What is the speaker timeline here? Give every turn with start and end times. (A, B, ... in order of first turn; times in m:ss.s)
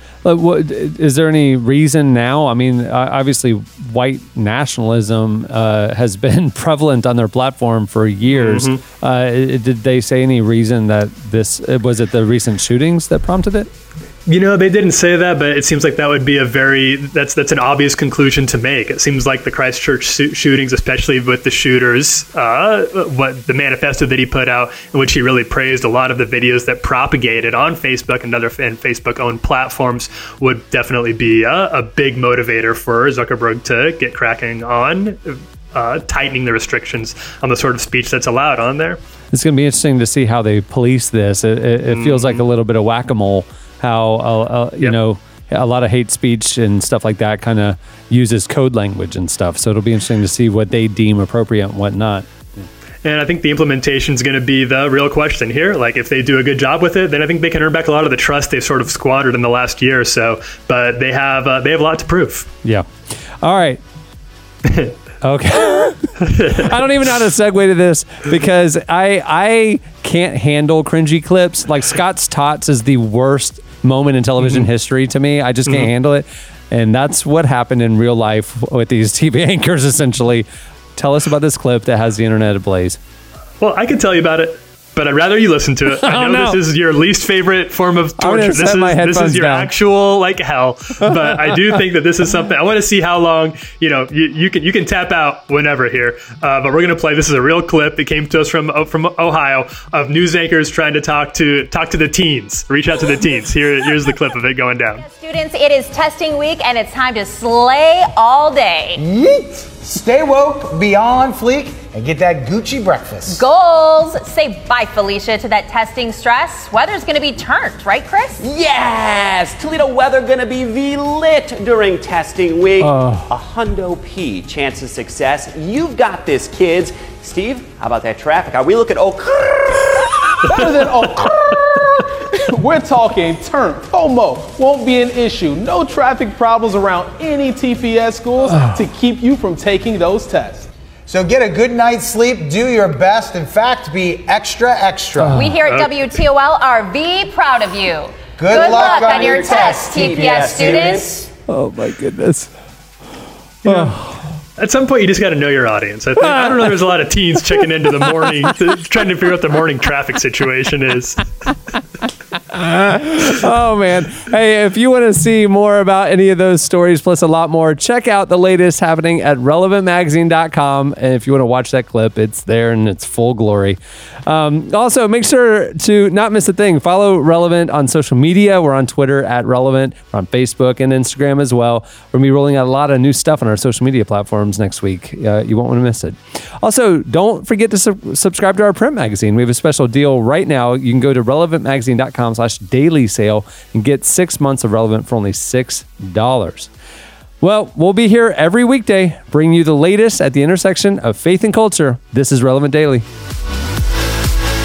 0:00.2-0:13.7 A
0:08.3-0:08.8 B
0:14.3-0:39.0 B
0:39.3-0:52.6 A
0:41.9-0:42.4 B
0:53.0-1:02.5 B
1:03.4-1:03.8 A
1:04.7-1:04.9 B
1:05.2-1:23.0 A
1:06.2-1:06.7 B
1:14.4-1:14.7 B
1:23.6-1:45.0 B
1:26.0-1:26.6 A
1:28.2-1:29.7 A
1:45.0-1:49.0 C
1:49.0-1:53.4 D
1:53.3-1:58.4 C
1:58.4-2:10.1 E
2:02.8-2:03.2 A
2:10.4-2:20.7 F
2:21.1-2:25.4 D
2:25.2-2:25.6 A
2:25.3-2:31.1 C
2:28.4-2:31.0 D
2:28.5-2:31.3 E
2:31.5-2:32.5 A
2:33.6-2:34.0 B
2:33.6-2:34.0 A
2:34.6-2:41.2 B
2:36.2-2:36.6 A
2:42.5-3:16.7 A
3:17.4-3:23.0 A